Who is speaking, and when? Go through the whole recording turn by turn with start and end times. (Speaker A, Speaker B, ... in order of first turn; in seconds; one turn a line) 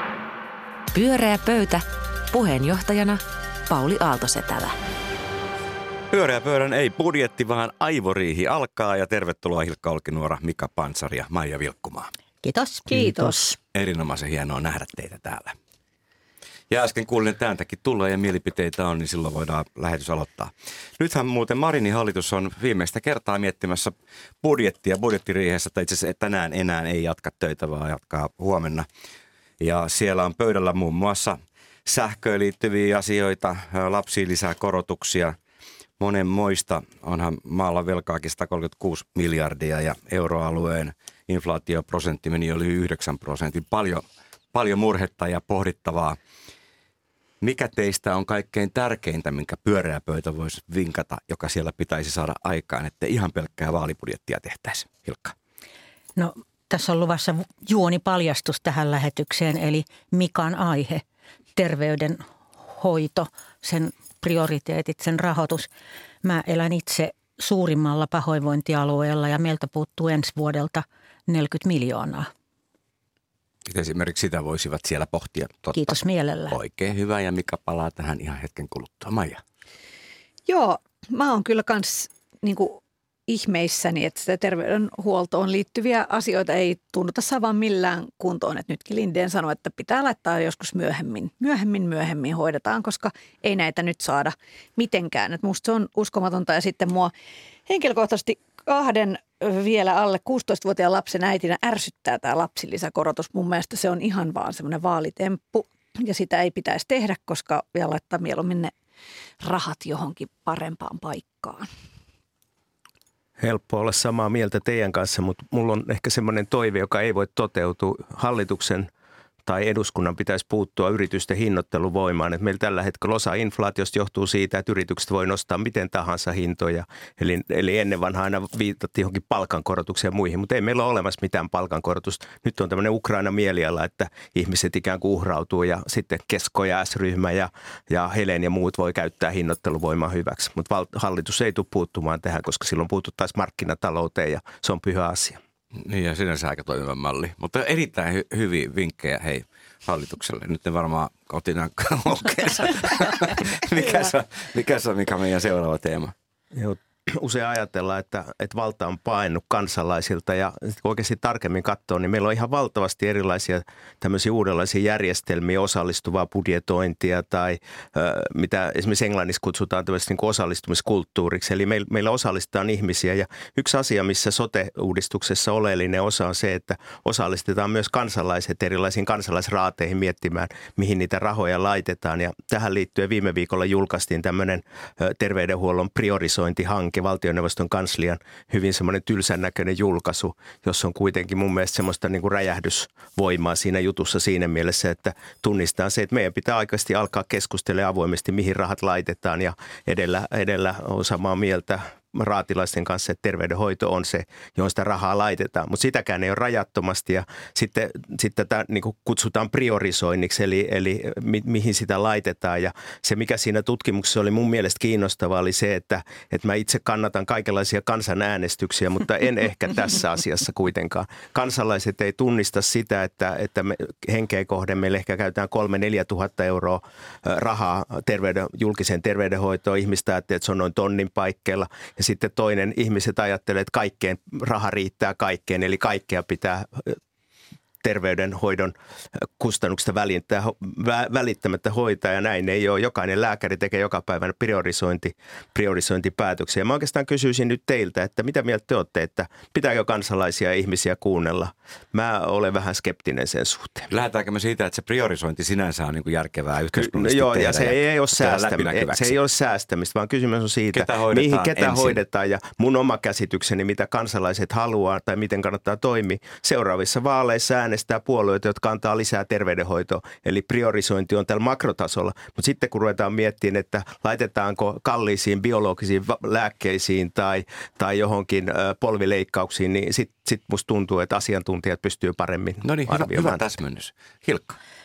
Speaker A: 0.9-4.8
Speaker B: 6.1-12.1
Speaker C: 12.4-13.3
Speaker A: 12.6-13.6
Speaker B: 13.7-15.5
Speaker B: 16.7-28.9
Speaker B: 29.6-35.4
Speaker B: 36.0-46.2
Speaker B: 47.4-55.4
Speaker C: 56.2-61.0
Speaker C: 61.6-65.7
Speaker C: 66.2-72.3
Speaker B: 73.7-76.0
Speaker C: 75.7-76.6
Speaker B: 76.5-79.4
Speaker D: 80.5-97.1
Speaker D: 97.7-108.7
Speaker D: 109.4-111.7
Speaker E: 113.4-118.9
Speaker E: 119.5-145.4
Speaker B: 145.8-156.1
Speaker E: 156.5-237.0
Speaker E: 237.8-253.9
Speaker B: 253.9-259.1
Speaker E: 256.7-283.4
Speaker B: 260.7-262.0
Speaker B: 282.6-284.6